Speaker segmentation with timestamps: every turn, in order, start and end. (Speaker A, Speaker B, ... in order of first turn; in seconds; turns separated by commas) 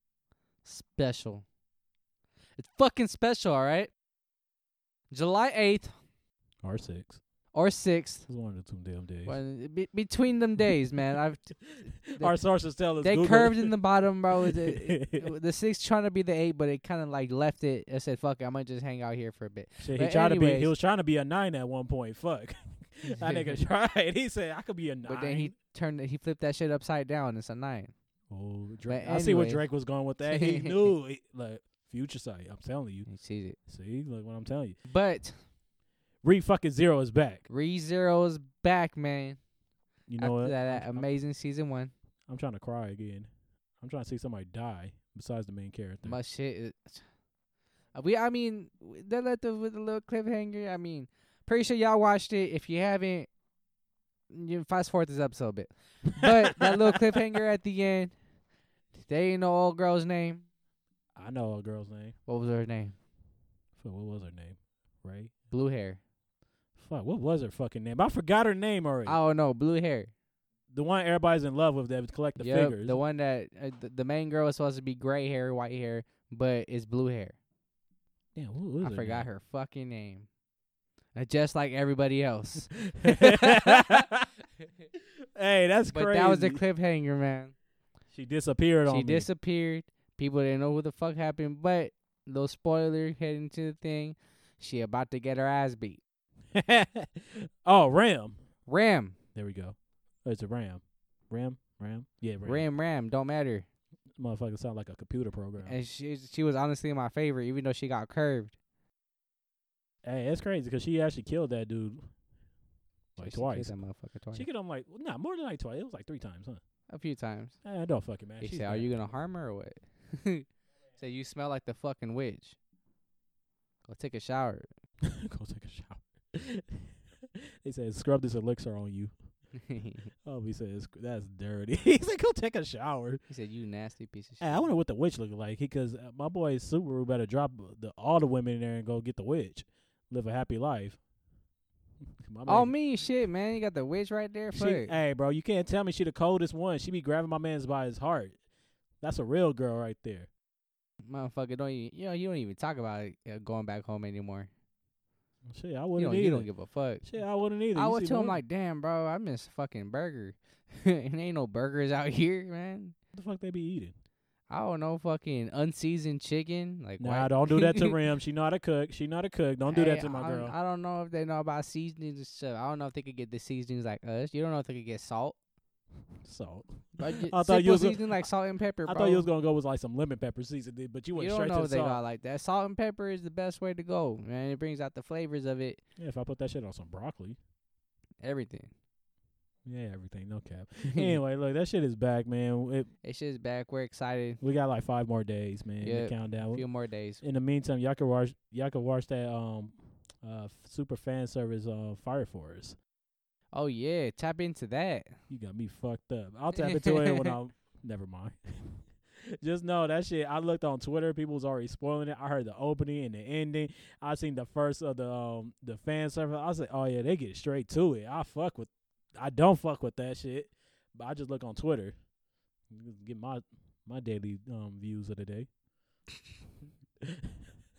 Speaker A: 0.6-1.4, Speaker A: 2.6-3.9, Speaker A: 5.1-5.9, Speaker B: 6.6-7.2, Speaker A: 7.5-8.2, Speaker B: 8.3-9.3, Speaker A: 9.2-12.3, Speaker B: 12.1-13.8, Speaker A: 13.0-20.7, Speaker B: 14.4-15.3, Speaker B: 19.8-25.5, Speaker A: 23.2-23.6, Speaker A: 25.0-27.9, Speaker B: 28.3-33.1, Speaker A: 28.9-29.7, Speaker A: 30.3-30.9, Speaker A: 33.1-33.6, Speaker B: 33.7-34.8, Speaker A: 34.9-35.4, Speaker B: 36.2-37.4, Speaker A: 37.5-39.4, Speaker B: 40.1-41.1, Speaker A: 40.2-41.9, Speaker B: 42.3-43.3, Speaker B: 43.8-46.2, Speaker A: 46.0-47.0, Speaker A: 47.9-53.3, Speaker A: 54.3-58.1, Speaker B: 56.2-57.0, Speaker A: 59.0-60.5, Speaker B: 61.1-62.1, Speaker A: 62.2-62.9, Speaker B: 63.8-65.3, Speaker A: 65.5-66.0, Speaker B: 66.8-69.2, Speaker A: 69.0-70.1, Speaker B: 70.7-73.0, Speaker A: 72.4-77.4, Speaker B: 78.3-79.3, Speaker A: 78.8-80.3, Speaker A: 81.1-84.0, Speaker B: 82.8-84.3, Speaker B: 85.3-86.6, Speaker A: 85.9-87.5, Speaker B: 88.1-89.3, Speaker A: 88.8-96.0, Speaker B: 96.5-98.4, Speaker A: 98.7-99.1, Speaker B: 99.3-102.6, Speaker A: 102.4-103.7, Speaker B: 104.2-105.8, Speaker A: 105.6-108.5, Speaker B: 110.0-112.0, Speaker B: 113.2-113.7, Speaker A: 113.2-114.5, Speaker B: 114.3-116.6, Speaker A: 116.9-117.5, Speaker B: 117.6-118.9, Speaker A: 118.4-120.5, Speaker A: 121.0-122.6, Speaker A: 123.8-124.7, Speaker B: 125.0-126.9, Speaker B: 127.6-129.1, Speaker A: 129.7-130.1, Speaker B: 130.2-133.2, Speaker A: 133.3-134.7, Speaker B: 134.4-141.0, Speaker B: 142.2-142.7, Speaker A: 142.4-145.0, Speaker B: 144.5-148.4, Speaker B: 149.0-150.3, Speaker A: 151.1-154.5, Speaker B: 155.5-156.5, Speaker A: 155.9-157.1, Speaker B: 157.0-158.4, Speaker A: 157.7-162.9, Speaker B: 163.1-163.9, Speaker A: 164.5-167.9, Speaker B: 167.0-170.5, Speaker A: 169.7-175.3, Speaker B: 176.2-178.2, Speaker A: 177.0-179.3, Speaker B: 178.8-182.0, Speaker A: 181.1-185.8, Speaker B: 186.0-187.4, Speaker A: 188.2-188.7, Speaker B: 189.7-192.9, Speaker A: 193.0-194.4, Speaker B: 194.4-196.6, Speaker A: 195.8-197.2, Speaker B: 197.2-202.8, Speaker A: 203.5-205.1, Speaker B: 205.3-208.8, Speaker A: 206.6-207.3, Speaker B: 209.3-221.9, Speaker B: 222.7-225.5, Speaker B: 227.0-227.3